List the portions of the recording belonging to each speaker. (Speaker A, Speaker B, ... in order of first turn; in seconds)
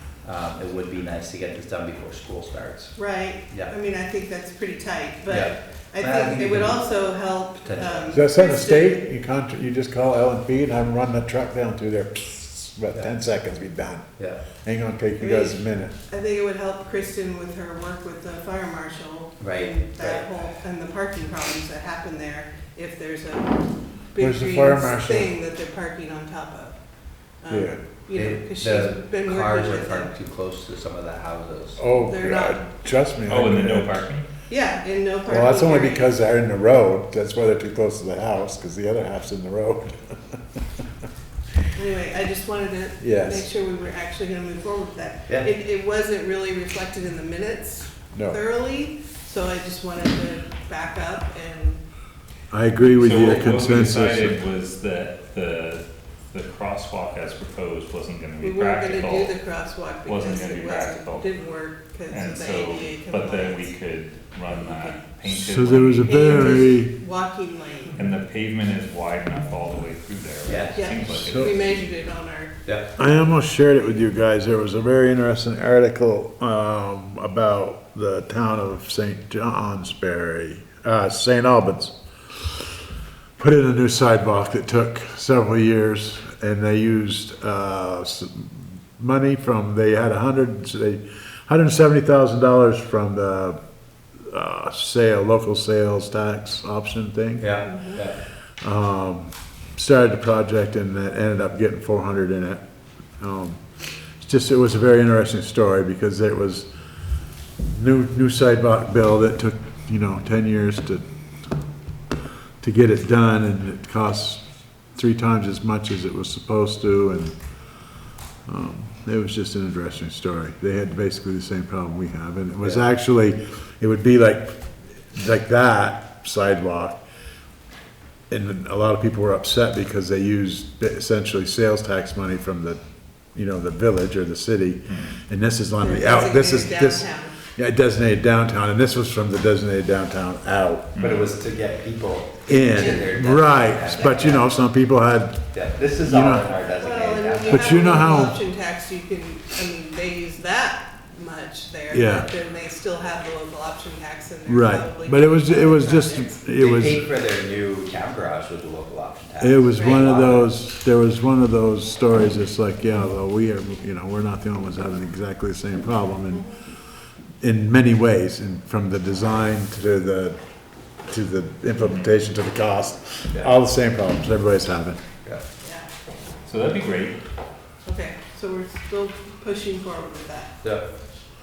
Speaker A: 0.2-3.0, 5.3-6.8, 7.6-8.2, 14.2-14.4, 19.4-20.3, 28.1-31.8, 70.4-70.8, 72.6-72.9, 97.4-98.2, 122.6-122.9, 141.0-144.5, 145.5-148.2, 156.6-160.5, 180.6-180.9
Speaker B: 2.9-9.0, 15.2-23.6, 24.1-26.8, 27.4-30.1, 32.1-32.6, 34.5-36.1, 41.7-51.8, 58.4-63.7, 64.6-65.0, 66.0-67.9, 70.8-72.5, 97.6-98.0, 135.8-137.3, 146.8-156.4, 159.7-160.2, 166.3-166.6, 175.6-175.9, 177.8-180.6
Speaker C: 8.1-14.1, 14.6-15.9, 24.2-25.3, 27.5-27.8, 31.8-34.0, 35.3-40.3, 43.0-43.5, 48.1-48.4, 52.5-54.4, 65.3-66.9, 71.1-71.6, 73.0-82.6, 83.4-93.6, 94.2-97.7, 98.6-102.6, 103.2-103.6, 104.2-106.7, 107.7-111.0, 112.6-117.3, 118.5-127.0, 128.3-132.8, 133.3-140.9, 142.5-146.5, 147.4-148.4, 151.9-152.3, 154.4-157.1, 159.4-166.6, 167.4-170.4, 171.1-175.0
Speaker D: 32.2-32.5, 33.3-34.2, 53.0-59.4, 60.0-61.3, 62.1-66.7, 68.0-71.7, 134.9-135.2, 140.9-141.3, 171.8-172.1, 176.4-177.2